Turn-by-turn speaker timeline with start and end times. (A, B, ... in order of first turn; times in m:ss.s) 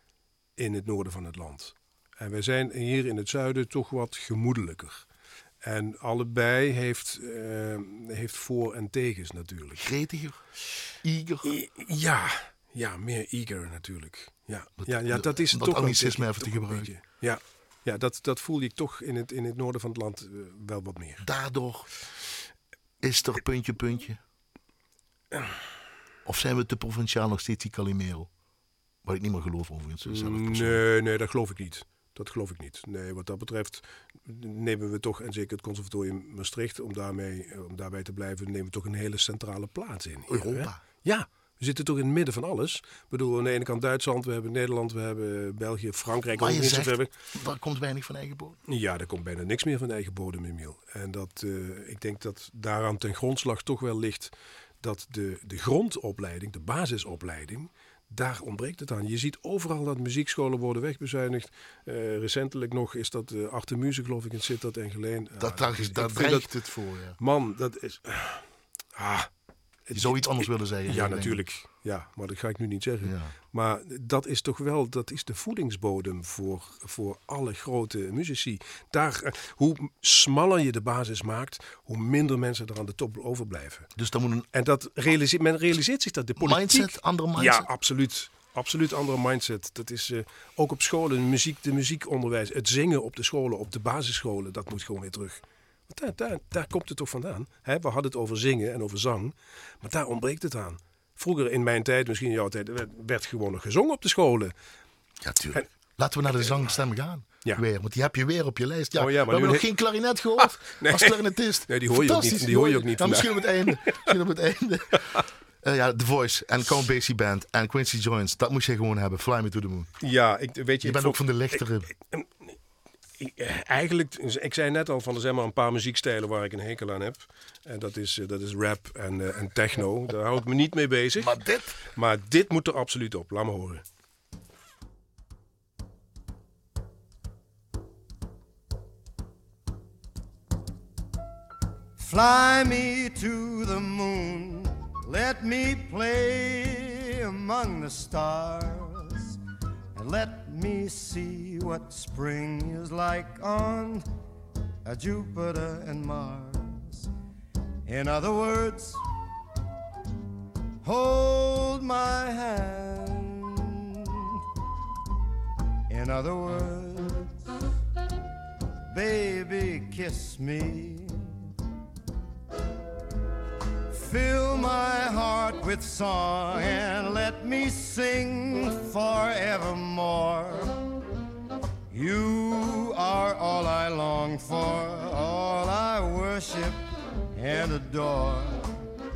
0:00.6-0:05.1 A
0:05.6-0:09.8 A
0:09.8-0:10.4 B
0:11.0-0:11.5 B
0:11.4-0:21.2 A
0:14.8-0:17.0 B
0:21.2-0:21.9 B
0:23.0-0:24.2 B
0:26.2-0:28.3 B
0:29.0-0:30.8 B
0:30.0-0:47.1 A
0:40.3-0:40.8 B
0:46.4-0:48.6 B
0:48.7-1:06.6 A
1:05.4-1:07.2 B
1:07.2-1:09.3 A
1:09.8-1:23.9 A
1:09.9-1:11.4 B
1:13.0-1:13.3 B
1:24.0-1:24.5 B
1:24.5-1:44.5 A
1:26.4-1:27.7 B
1:45.2-1:59.9 B
1:48.9-1:49.7 A
1:50.8-1:54.1 A
2:00.0-2:02.6 A
2:00.8-2:01.9 B
2:03.2-2:13.8 A
2:11.2-2:11.8 B
2:22.0-2:29.4 C
2:29.9-2:34.0 C
2:34.8-2:37.1 C
2:37.8-2:39.0 C
2:40.8-2:44.2 C
2:45.9-2:47.3 C
2:48.9-2:51.3 C
2:53.9-3:00.8 C
3:01.9-3:08.7 C